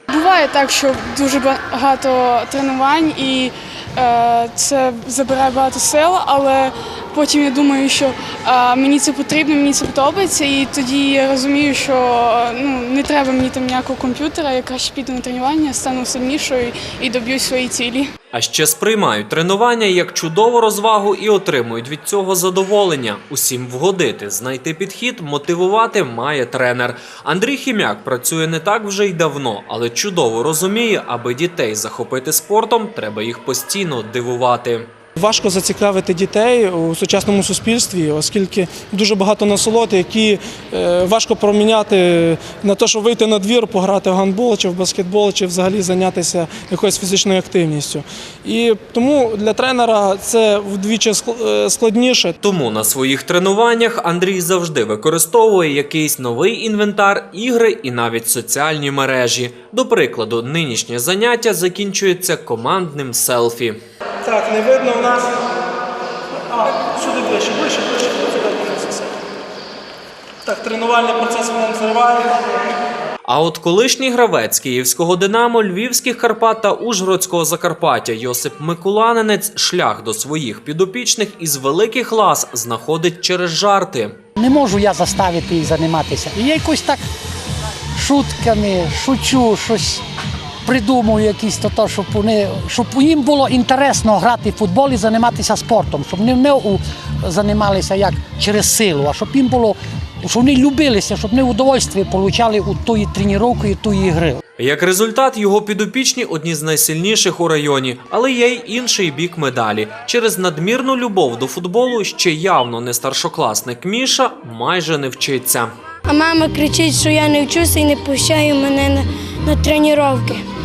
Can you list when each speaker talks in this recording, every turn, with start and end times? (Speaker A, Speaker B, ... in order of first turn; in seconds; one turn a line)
Speaker A: 0.1-18.1
Speaker B: 18.3-34.9
Speaker C: 35.2-52.3
Speaker B: 52.4-63.8
Speaker C: 64.2-65.4
Speaker C: 66.5-69.1
Speaker C: 70.4-72.5
Speaker B: 73.2-84.1
Speaker D: 84.4-87.0
Speaker D: 88.0-90.0
Speaker D: 90.6-104.4
Speaker B: 104.6-115.7
Speaker E: 116.0-120.4